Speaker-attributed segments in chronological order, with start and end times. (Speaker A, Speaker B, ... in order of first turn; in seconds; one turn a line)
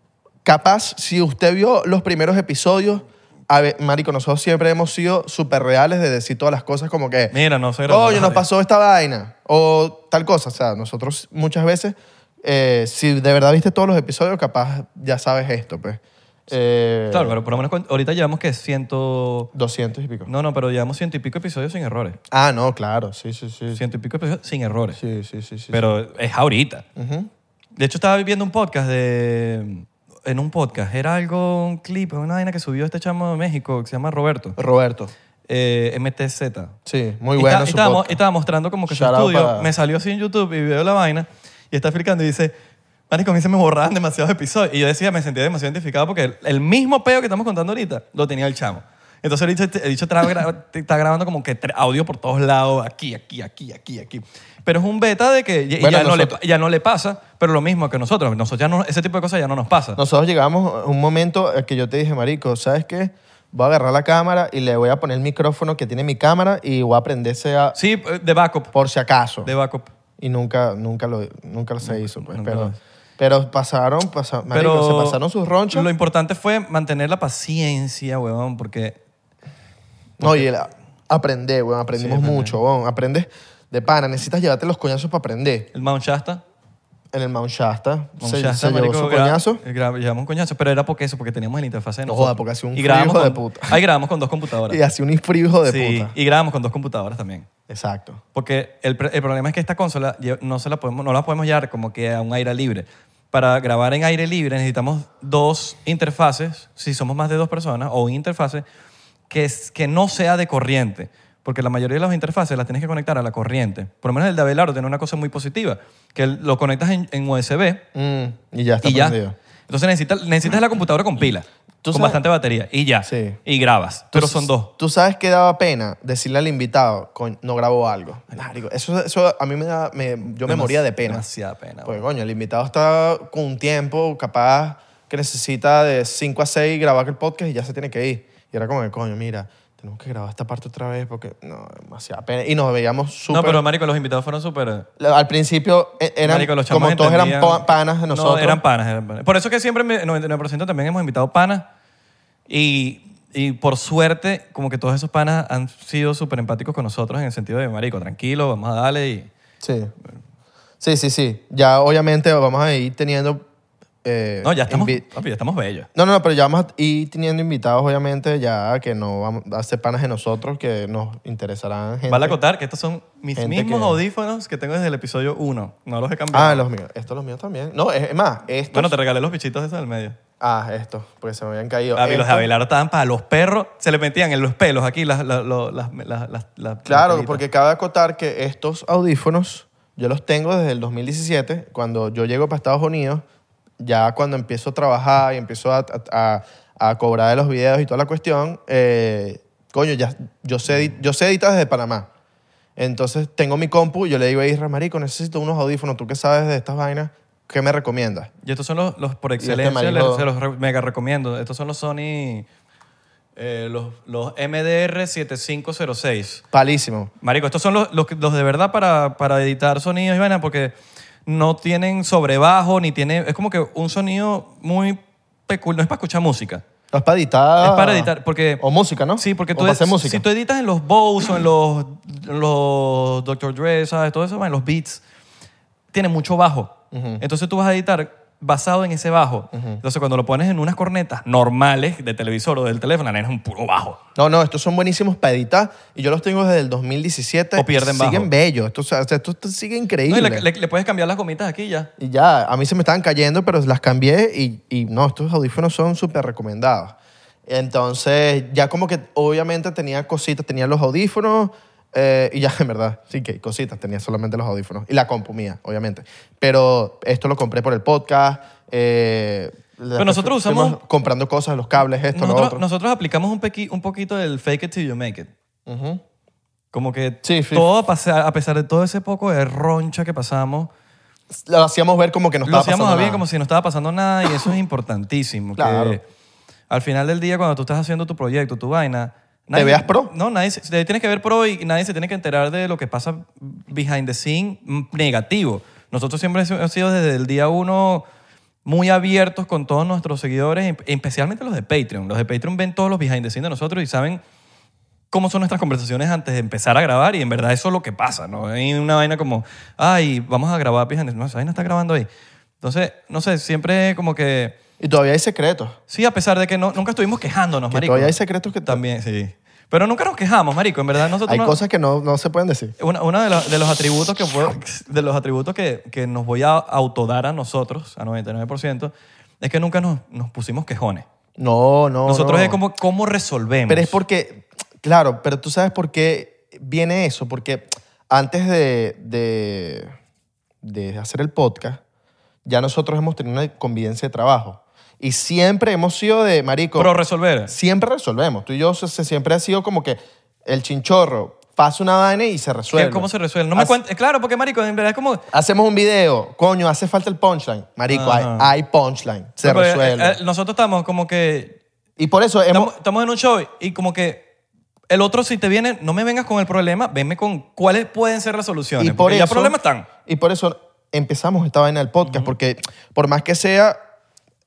Speaker A: 0.5-7.3
Speaker B: 7.3-8.4
Speaker A: 7.9-17.4
Speaker B: 17.1-19.5
Speaker A: 19.5-20.3
Speaker B: 20.3-22.2
Speaker A: 22.3-23.8
Speaker B: 23.7-25.0
Speaker A: 24.9-25.9
Speaker B: 25.7-26.9
Speaker A: 27.0-27.3
Speaker B: 27.8-34.6
Speaker A: 34.6-35.1
Speaker B: 35.5-36.8
Speaker A: 36.9-38.2
Speaker B: 37.4-42.5
Speaker A: 38.9-39.7
Speaker B: 43.1-60.0
Speaker A: 55.8-56.4
Speaker A: 60.0-67.8
Speaker B: 67.8-68.7
Speaker A: 68.7-69.5
Speaker B: 69.4-69.9
Speaker A: 70.2-75.9
Speaker B: 71.8-72.8
Speaker B: 74.5-75.2
Speaker B: 75.7-79.0
Speaker B: 80.2-80.5
Speaker A: 80.2-85.7
Speaker B: 82.0-82.6
Speaker B: 85.7-86.4
Speaker A: 87.1-89.6
Speaker B: 88.2-94.8
Speaker A: 92.1-93.8
Speaker A: 94.7-96.1
Speaker B: 95.7-97.5
Speaker A: 97.7-98.2
Speaker B: 98.3-108.7
Speaker B: 109.3-117.8
Speaker A: 118.0-119.4
Speaker B: 118.8-124.7
Speaker A: 121.8-122.2
Speaker A: 123.0-123.4
Speaker A: 124.1-131.2
Speaker B: 130.5-132.0
Speaker A: 131.8-143.6
Speaker B: 143.3-144.9
Speaker A: 145.0-148.6
Speaker B: 146.2-151.7
Speaker B: 152.5-159.3
Speaker A: 159.6-159.9
Speaker A: 160.8-163.4
Speaker A: 164.0-165.0
Speaker B: 164.4-165.9
Speaker A: 165.9-172.4
Speaker B: 172.1-176.6
Speaker A: 173.4-174.0
Speaker A: 176.3-178.9
Speaker B: 178.7-180.2
Speaker A: 180.4-182.5
Speaker B: 181.9-187.4
Speaker A: 186.9-193.2
Speaker A: 193.8-202.1
Speaker A: 202.8-208.3
Speaker B: 208.4-212.5
Speaker A: 209.4-210.3
Speaker B: 213.4-216.4
Speaker A: 216.5-217.1
Speaker B: 217.2-220.7
Speaker B: 221.3-226.6
Speaker A: 226.9-230.2
Speaker B: 227.6-228.6
Speaker B: 229.2-235.0
Speaker B: 235.9-244.0
Speaker A: 236.9-237.2
Speaker A: 239.5-239.8
Speaker A: 244.2-250.4
Speaker B: 247.6-248.3
Speaker B: 250.1-251.9
Speaker A: 252.0-256.9
Speaker A: 257.5-272.6
Speaker B: 270.0-270.8
Speaker B: 272.1-275.3
Speaker A: 275.7-276.0
Speaker B: 276.7-280.7
Speaker A: 277.2-277.7
Speaker A: 281.5-283.2
Speaker B: 282.4-286.0
Speaker A: 285.6-286.0
Speaker B: 286.7-298.1
Speaker A: 289.6-290.1
Speaker B: 298.6-304.2
Speaker B: 305.1-312.1
Speaker B: 312.6-314.6
Speaker A: 314.8-315.8
Speaker B: 315.9-321.6
Speaker A: 317.7-318.8
Speaker A: 321.3-322.8
Speaker B: 322.8-331.1
Speaker A: 331.4-332.6
Speaker B: 332.1-334.0
Speaker A: 333.7-339.9
Speaker A: 340.6-341.8
Speaker A: 342.4-346.9
Speaker B: 346.8-347.5
Speaker A: 347.5-353.8
Speaker B: 352.7-355.3
Speaker A: 355.3-360.2
Speaker B: 357.9-358.5
Speaker B: 359.4-361.6
Speaker A: 362.0-362.7
Speaker B: 362.5-364.3
Speaker B: 364.9-369.9
Speaker A: 368.8-373.8
Speaker B: 372.0-372.3